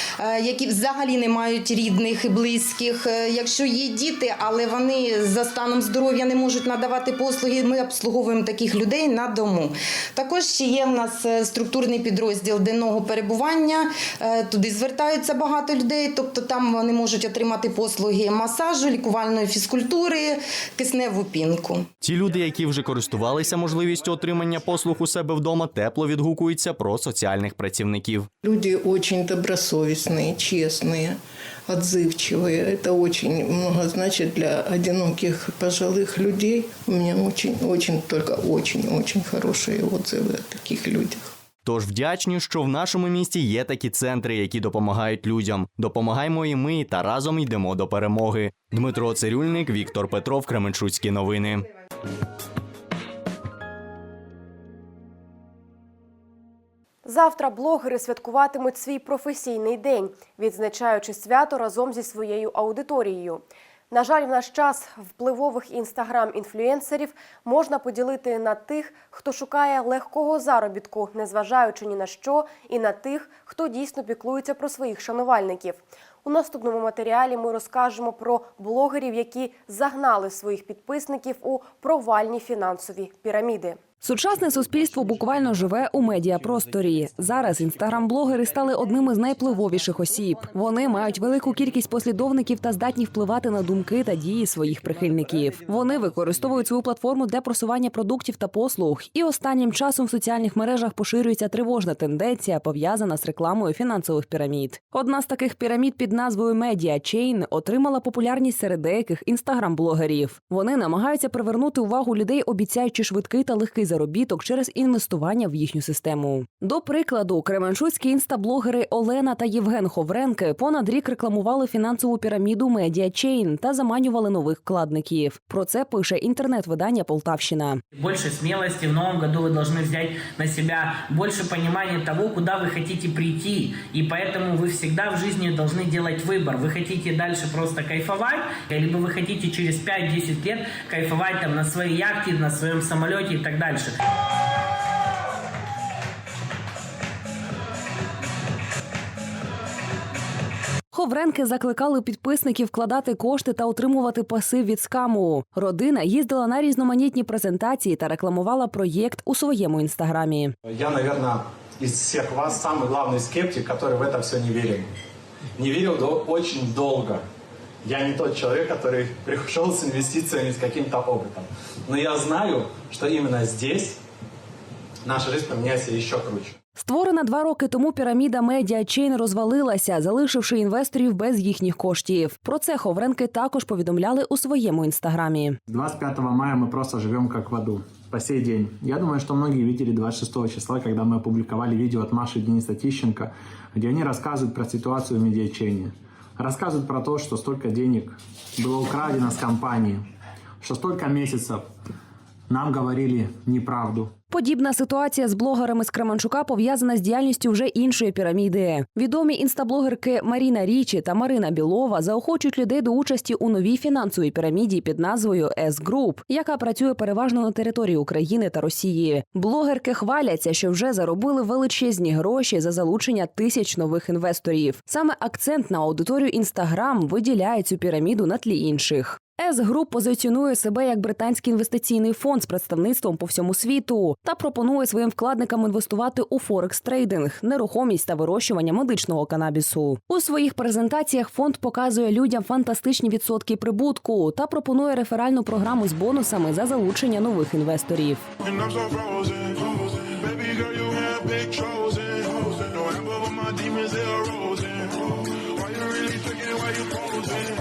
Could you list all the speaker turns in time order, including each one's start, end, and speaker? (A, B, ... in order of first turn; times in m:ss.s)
0:00.2-0:21.9 A
0:22.0-0:28.3 B
0:28.4-0:41.3 C
0:41.6-0:51.6 B
0:57.0-1:23.8 D
1:24.0-2:07.8 E
2:07.9-2:23.9 F
2:30.9-2:40.6 E
2:40.7-2:44.9 G
2:45.6-2:47.2 G
2:47.8-2:54.0 G
2:55.1-2:56.5 G
2:56.8-3:05.6 E
3:05.7-3:20.0 H
3:20.6-3:21.6 H
3:22.5-3:24.1 H
3:24.3-4:08.3 E
4:08.6-4:15.0 C
4:15.6-4:17.2 C